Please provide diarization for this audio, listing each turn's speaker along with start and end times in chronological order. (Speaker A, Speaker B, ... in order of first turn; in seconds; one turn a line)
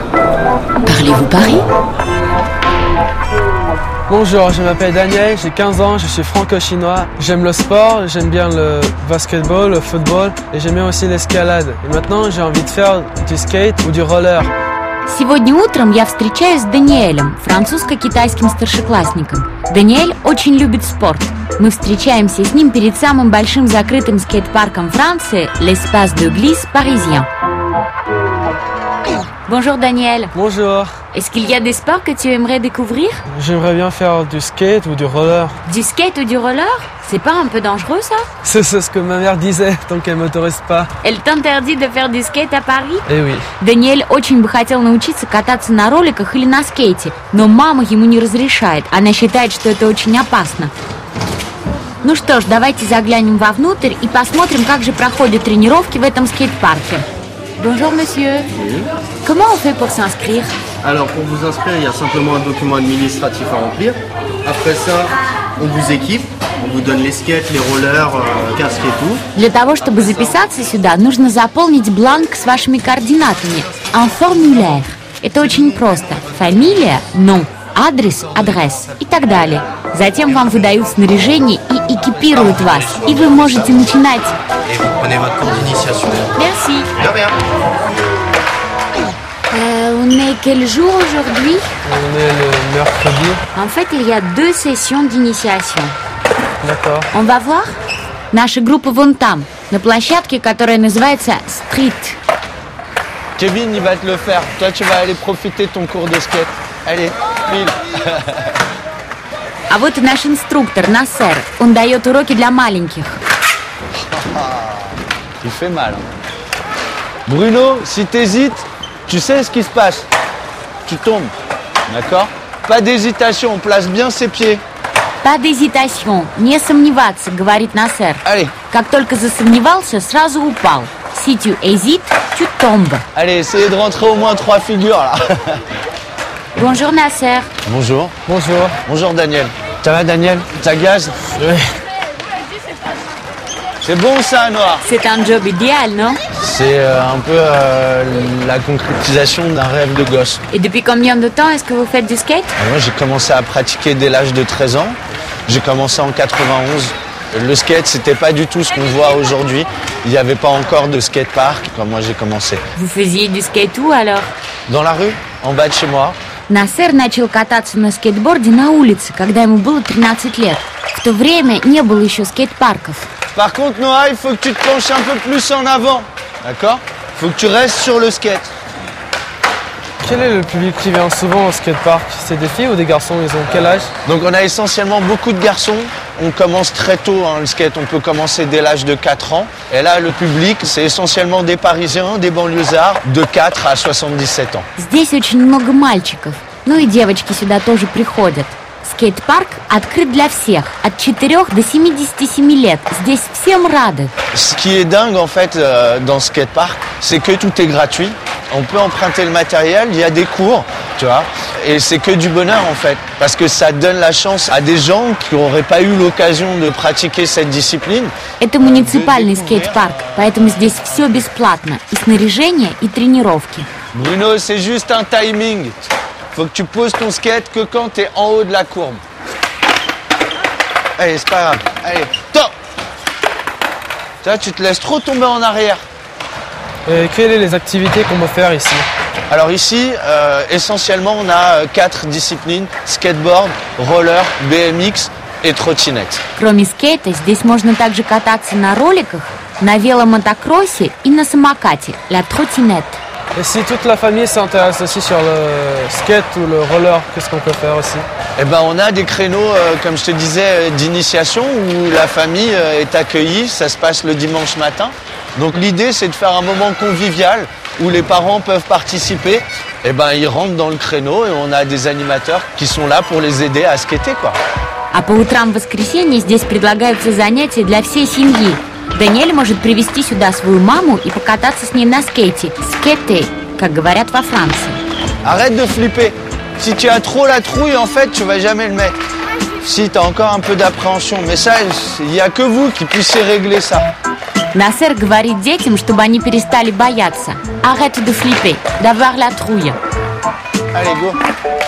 Speaker A: 0.8-1.7
Speaker B: 4.1-14.5
Speaker A: 15.1-27.3
Speaker A: 29.4-30.3
Speaker B: 30.3-30.9
Speaker A: 31.1-33.2
Speaker B: 33.3-35.6
Speaker A: 35.7-38.3
Speaker B: 38.4-40.9
Speaker A: 41.0-43.0
Speaker B: 43.1-43.5
Speaker A: 43.6-50.7
Speaker A: 52.0-57.1
Speaker A: 57.6-58.5
Speaker C: 58.6-58.9
Speaker A: 59.2-60.6
Speaker C: 60.8-69.2
Speaker A: 69.3-84.4
Speaker C: 84.7-86.3
Speaker A: 86.3-86.9
Speaker C: 87.0-87.3
Speaker A: 89.5-91.7
Speaker B: 91.8-93.4
Speaker A: 93.5-95.9
Speaker B: 96.6-97.1
Speaker A: 97.1-97.8
Speaker A: 98.3-102.2
Speaker D: 103.4-108.6
Speaker A: 109.7-113.2
Speaker D: 114.1-116.1
Speaker D: 117.3-120.1
Speaker D: 120.8-121.3
Speaker D: 121.9-124.6
Speaker A: 125.2-133.1
Speaker D: 128.2-128.6
Speaker D: 133.2-135.6
Speaker A: 136.6-137.5
Speaker D: 137.7-138.1
Speaker B: 138.3-138.8
Speaker D: 138.8-141.2
Speaker B: 141.4-141.7
Speaker D: 143.8-144.8
Speaker A: 144.8-146.2
Speaker D: 146.3-150.4
Speaker A: 150.5-152.6
Speaker D: 152.6-162.6
Speaker A: 162.8-164.3
Speaker D: 164.7-166.2
Speaker A: 166.5-173.1
Speaker D: 173.3-178.5
Speaker B: 180.0-183.9
Speaker D: 183.7-194.7
Speaker A: 194.8-204.1
Speaker D: 204.3-220.5
Speaker A: 218.4-223.7
Speaker D: 223.9-229.0
Speaker D: 231.0-232.5
Speaker D: 234.2-235.8
Speaker B: 236.9-238.9
Speaker D: 239.3-246.2
Speaker A: 246.4-253.0
Speaker B: 253.3-258.1
Speaker D: 258.4-274.4
Speaker A: 274.9-284.8
Speaker D: 285.2-289.0
Speaker D: 289.6-293.9
Speaker A: 294.5-299.8
Speaker D: 300.7-301.2